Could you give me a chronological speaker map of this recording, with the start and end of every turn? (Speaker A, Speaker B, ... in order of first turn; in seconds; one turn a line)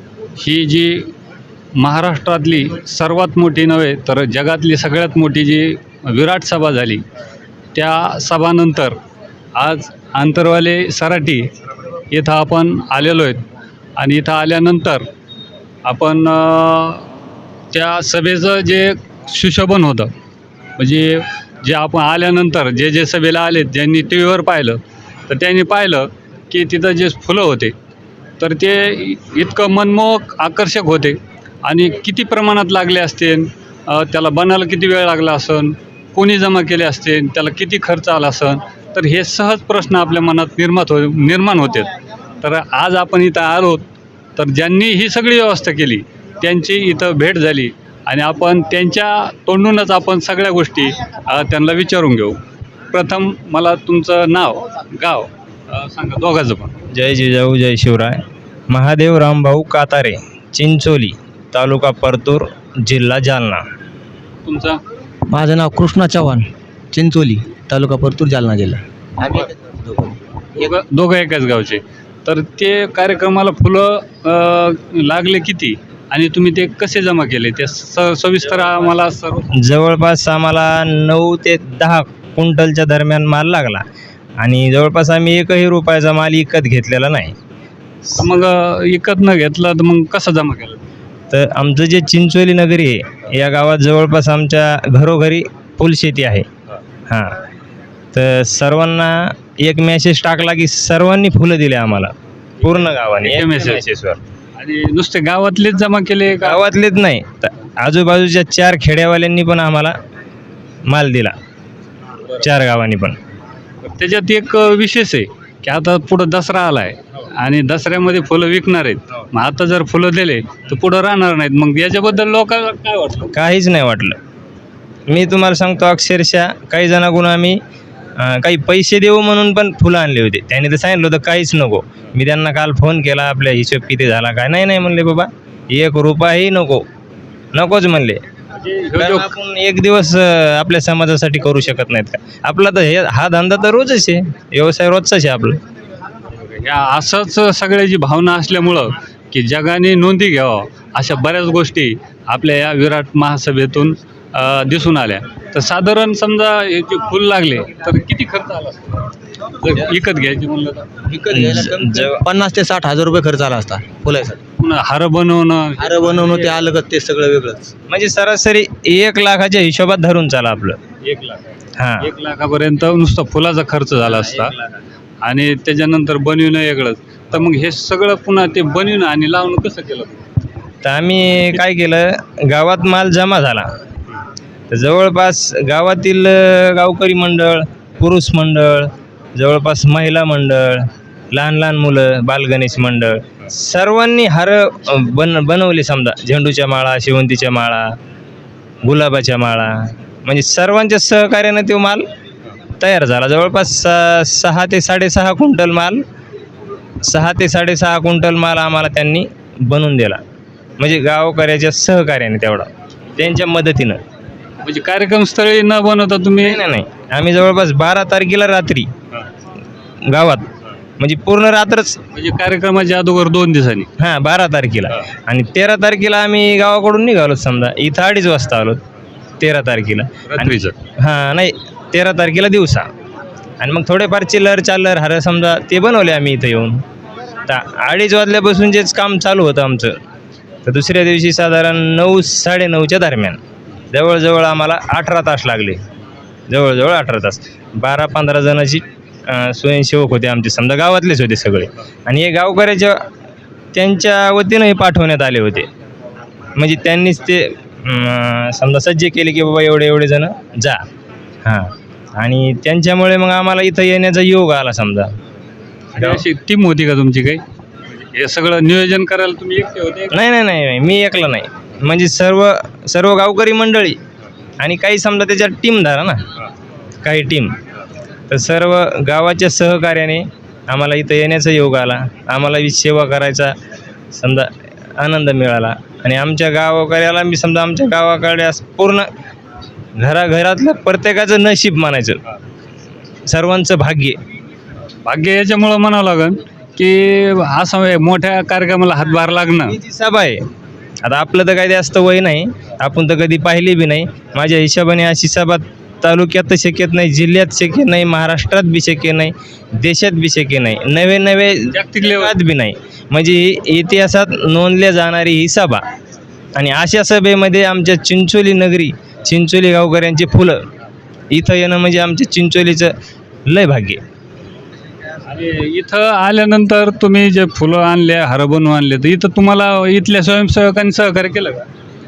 Speaker A: 0.4-1.1
Speaker A: 1.8-7.0
Speaker A: 7.8-9.0
Speaker A: 9.6-11.5
Speaker A: 12.1-13.4
Speaker A: 14.0-15.1
Speaker A: 15.8-17.0
Speaker A: 17.7-20.1
Speaker A: 20.8-27.7
Speaker A: 28.4-52.4
Speaker A: 52.9-56.8
Speaker B: 56.9-63.7
Speaker A: 64.5-64.8
Speaker C: 65.3-70.7
Speaker A: 70.6-79.6
Speaker B: 79.5-83.8
Speaker B: 84.4-87.3
Speaker A: 88.1-90.8
Speaker B: 91.3-96.5
Speaker B: 97.1-97.4
Speaker B: 98.1-104.2
Speaker A: 102.6-103.8
Speaker A: 104.6-106.6
Speaker B: 106.3-110.0
Speaker B: 110.9-111.3
Speaker B: 112.4-113.2
Speaker A: 113.8-123.3
Speaker B: 123.3-124.2
Speaker B: 125.1-127.6
Speaker B: 128.2-136.8
Speaker B: 137.5-138.2
Speaker A: 138.5-139.3
Speaker B: 139.0-145.6
Speaker A: 146.3-160.9
Speaker C: 161.1-164.4
Speaker B: 161.3-162.2
Speaker A: 164.6-166.3
Speaker C: 165.8-167.7
Speaker B: 167.9-170.8
Speaker A: 171.0-171.4
Speaker B: 171.8-172.1
Speaker A: 172.0-174.5
Speaker A: 175.2-180.3
Speaker B: 180.8-183.7
Speaker B: 184.7-197.9
Speaker B: 198.8-202.0
Speaker B: 202.8-206.0
Speaker B: 207.0-210.2
Speaker B: 210.8-214.0
Speaker A: 214.6-216.6
Speaker B: 216.4-218.9
Speaker B: 220.1-220.5
Speaker B: 221.0-222.0
Speaker A: 222.1-223.9
Speaker B: 224.0-228.8
Speaker B: 229.4-232.9
Speaker A: 230.3-230.8
Speaker B: 233.6-236.8
Speaker B: 237.5-239.9
Speaker B: 240.7-243.4
Speaker B: 243.9-245.8
Speaker B: 246.5-253.0
Speaker B: 253.7-255.7
Speaker B: 256.6-260.8
Speaker B: 261.4-265.1
Speaker A: 265.9-270.2
Speaker B: 266.0-266.2
Speaker B: 270.1-274.0
Speaker B: 274.6-276.2
Speaker B: 277.0-277.5
Speaker B: 278.3-283.5
Speaker B: 284.1-289.1
Speaker B: 290.0-292.2
Speaker B: 293.3-294.2
Speaker A: 295.0-299.8
Speaker B: 299.7-300.4
Speaker B: 301.1-315.8
Speaker A: 311.7-312.4
Speaker B: 316.6-320.6
Speaker B: 321.3-322.9
Speaker B: 323.5-324.0
Speaker A: 325.2-331.7